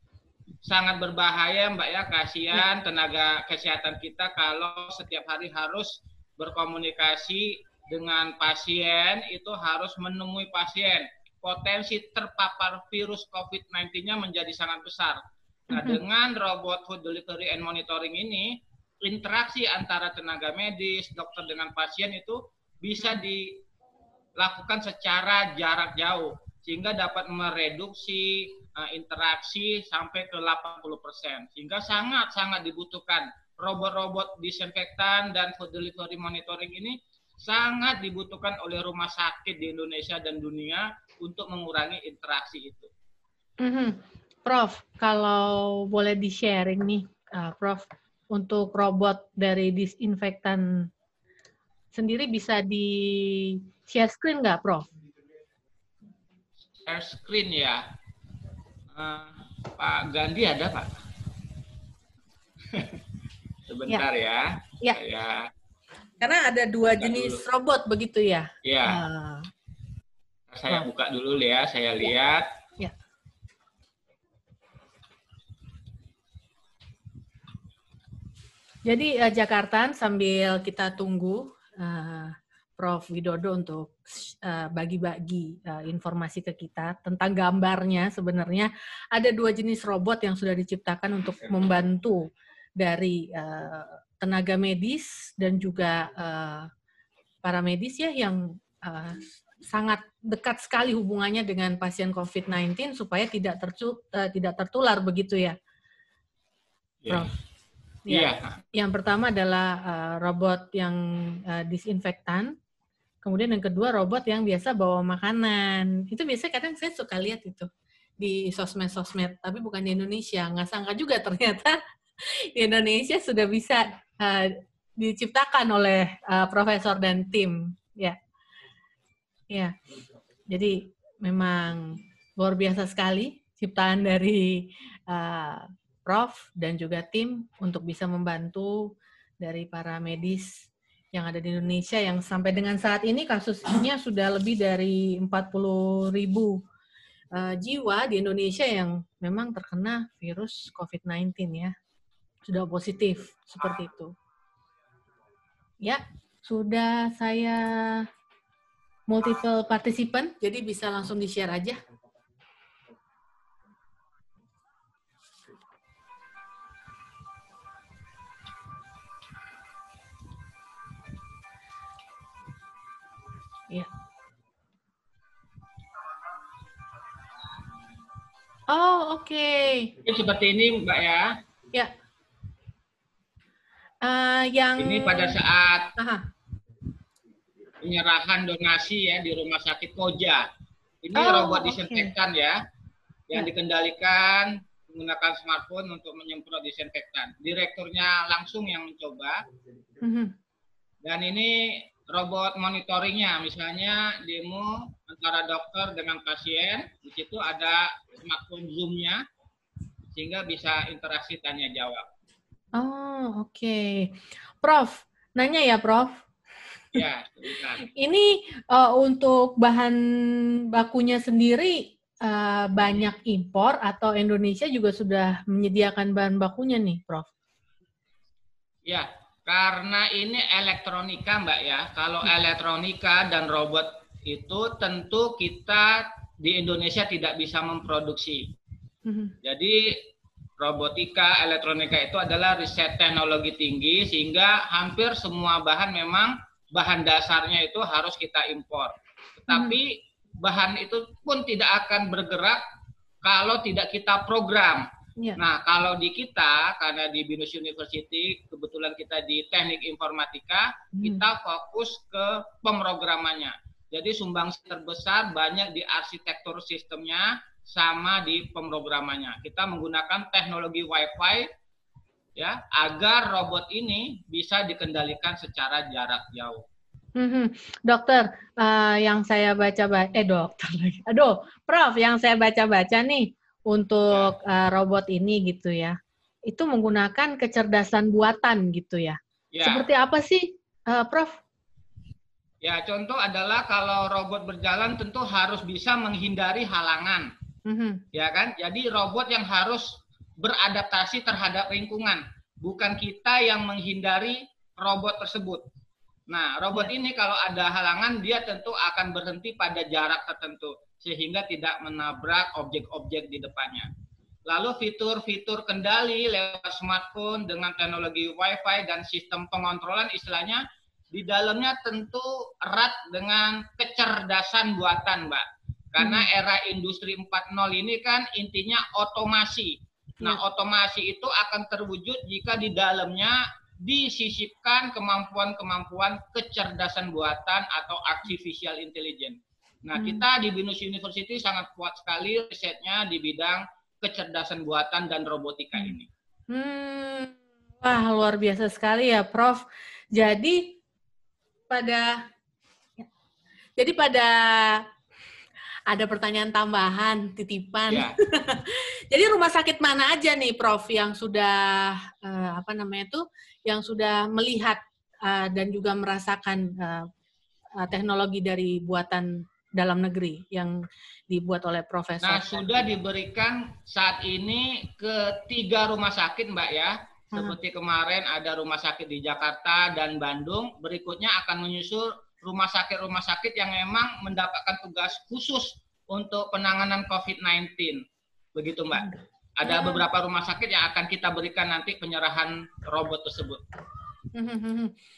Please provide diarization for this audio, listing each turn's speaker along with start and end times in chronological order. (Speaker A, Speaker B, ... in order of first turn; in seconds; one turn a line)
Speaker A: 0.7-15.2
Speaker A: 15.7-23.6
Speaker B: 15.7-16.0
Speaker A: 24.4-42.9
Speaker B: 43.6-50.9
Speaker B: 51.9-54.9
Speaker A: 56.8-57.8
Speaker A: 58.9-61.0
Speaker A: 62.7-63.0
Speaker A: 63.7-65.5
Speaker B: 66.2-69.5
Speaker A: 67.0-67.4
Speaker A: 68.6-69.0
Speaker A: 70.5-72.5
Speaker B: 78.9-92.3
Speaker B: 92.8-96.7
Speaker B: 97.4-105.5
Speaker A: 107.0-107.3
Speaker B: 107.1-107.3
Speaker B: 108.1-112.5
Speaker A: 108.1-108.6
Speaker B: 113.2-117.7
Speaker B: 118.2-121.8
Speaker B: 122.5-128.2
Speaker B: 130.5-146.6
Speaker B: 147.3-151.7
Speaker B: 152.5-154.1
Speaker B: 155.8-158.0
Speaker B: 159.1-161.8
Speaker B: 178.7-179.9
Speaker A: 180.0-181.3
Speaker B: 184.0-185.4
Speaker A: 184.8-185.9
Speaker B: 186.0-186.2
Speaker A: 187.8-190.5
Speaker A: 191.0-192.6
Speaker B: 191.2-192.1
Speaker A: 193.3-199.4
Speaker B: 200.0-200.3
Speaker A: 201.0-209.2
Speaker A: 210.1-212.1
Speaker B: 212.8-216.1
Speaker A: 216.9-217.9
Speaker B: 218.0-220.0
Speaker B: 220.7-227.3
Speaker A: 228.9-238.5
Speaker B: 239.1-239.3
Speaker A: 239.4-239.9
Speaker A: 240.6-249.9
Speaker B: 249.5-249.8
Speaker A: 250.4-252.6
Speaker A: 253.2-254.9
Speaker A: 255.4-271.5
Speaker B: 261.0-261.2
Speaker A: 272.4-276.6
Speaker B: 277.2-285.9
Speaker B: 286.5-291.3
Speaker A: 289.5-289.9
Speaker A: 292.6-297.3
Speaker B: 297.7-298.0
Speaker A: 298.1-299.9
Speaker A: 300.4-305.6
Speaker A: 306.3-313.9
Speaker A: 314.5-346.1
Speaker B: 326.0-326.3
Speaker B: 339.9-340.2
Speaker B: 346.5-350.8
Speaker B: 351.7-352.1
Speaker B: 353.8-354.8
Speaker B: 355.9-367.1
Speaker A: 357.9-358.1
Speaker B: 367.8-370.7
Speaker B: 371.3-372.9
Speaker A: 372.2-388.0
Speaker A: 388.6-393.6
Speaker B: 388.9-390.1
Speaker B: 394.4-394.9